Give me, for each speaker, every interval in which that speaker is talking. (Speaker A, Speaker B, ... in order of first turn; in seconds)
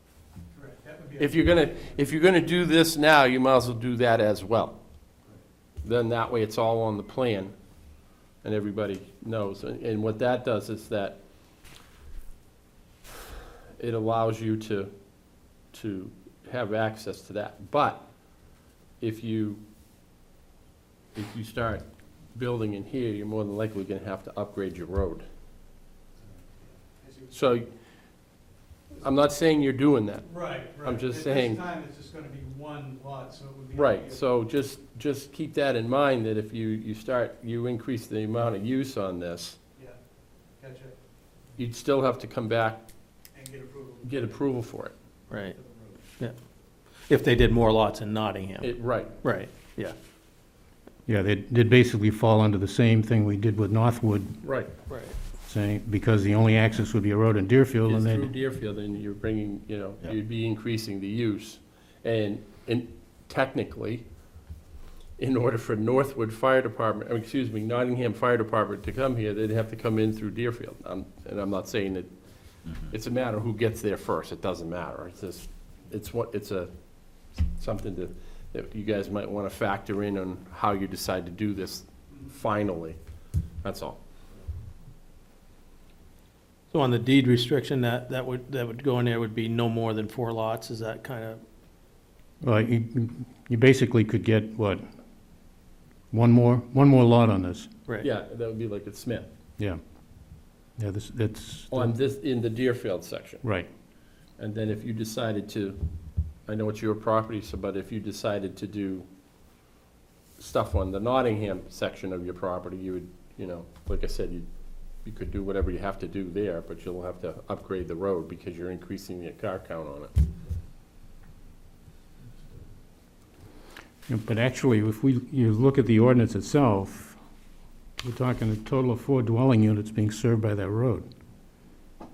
Speaker A: 0.6-1.3, 27.0-27.3, 30.3-34.1, 40.6-40.9, 43.4-44.1, 45.6-45.8
Speaker B: 1.2-4.8, 5.8-7.5, 8.4-11.2, 13.8-14.9, 15.7-18.1, 19.0-19.6, 21.1-25.2, 27.3-27.7, 29.0-31.6, 33.8-39.6, 41.6-42.9, 44.0-45.0, 48.6-49.1, 54.4-54.7, 57.9-64.0, 65.2-72.2, 72.7-76.9, 77.5-83.0, 83.6-84.0, 98.0-99.3, 101.7-103.4, 104.4-105.8, 106.5-109.1, 110.4-114.5, 115.0-120.1
Speaker C: 45.3-45.6, 47.1-48.7, 49.2-50.0, 54.9-55.2, 86.7-91.4
Speaker D: 51.1-54.4, 55.5-58.3, 92.4-94.8, 96.1-97.7, 100.8-101.9, 103.4-103.7, 124.1-127.2, 128.0-131.1